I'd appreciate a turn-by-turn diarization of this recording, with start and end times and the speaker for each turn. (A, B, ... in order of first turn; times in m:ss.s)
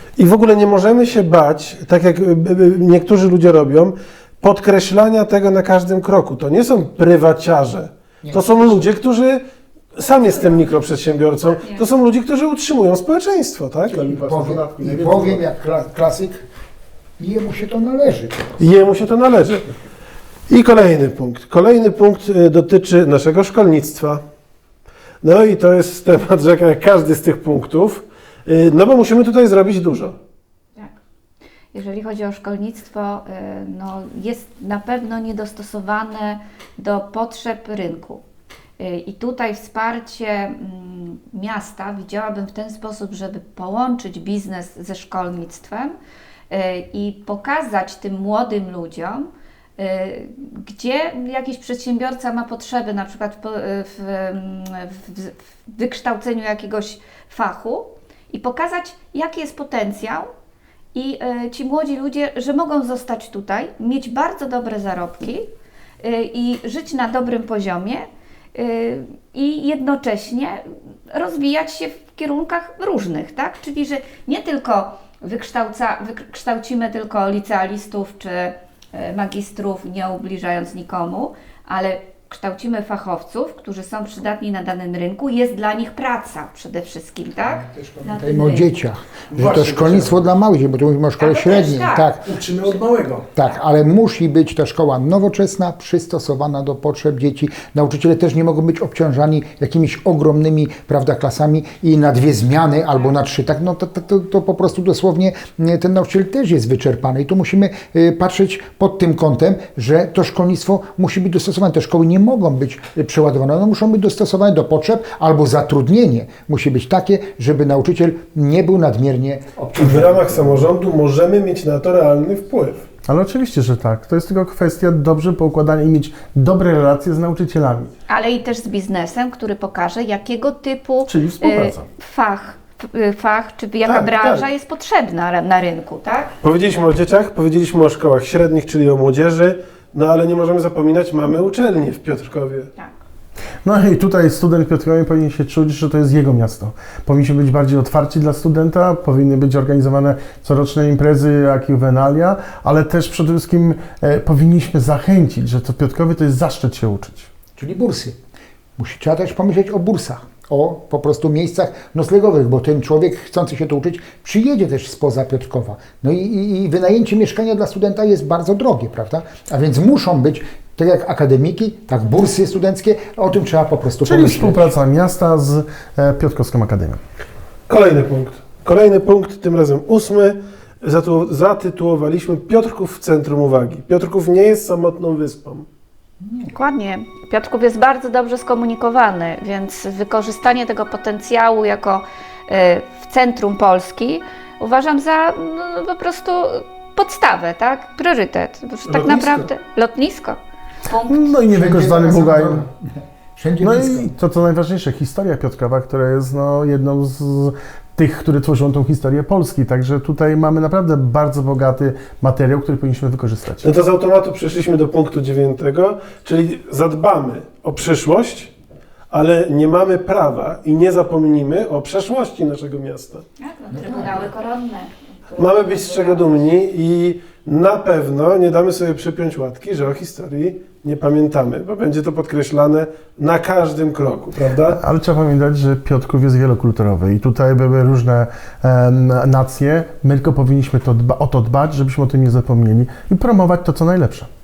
0:00.2-0:09.4 A
0:08.2-0:08.9 B
0:09.9-0:14.2 A
0:13.9-0:15.4 C
0:14.1-0:16.4 B
0:17.2-0:18.4 B
0:18.6-0:19.7 A
0:20.5-0:24.2 A
0:25.2-0:30.2 A
0:31.7-0:38.2 D
0:38.8-0:45.9 D
0:46.5-1:00.3 D
1:00.9-1:05.5 D
1:06.0-1:28.8 D
1:27.5-1:32.2 B
1:29.3-1:30.2 C
1:31.2-1:32.1 D
1:32.2-1:33.3 C
1:33.4-2:00.7 B
1:59.7-2:02.8 A
2:03.0-2:07.9 C
2:08.1-2:16.3 D
2:11.1-2:11.8 C
2:13.8-2:14.4 A
2:16.4-2:22.7 A
2:23.6-2:37.3 C
2:37.6-2:38.2 B
2:38.8-2:54.7 B
2:54.0-2:57.0 C
2:57.7-3:05.6 A
3:06.2-3:06.5 B
3:06.5-3:21.4 D
3:18.9-3:19.5 A
3:21.1-3:22.6 C
3:21.5-3:24.1 B
3:23.6-3:33.7 C
3:33.6-3:38.5 A
3:39.1-3:43.2 A
3:43.4-3:46.3 D
3:45.4-3:54.8 A
3:54.7-4:04.3 C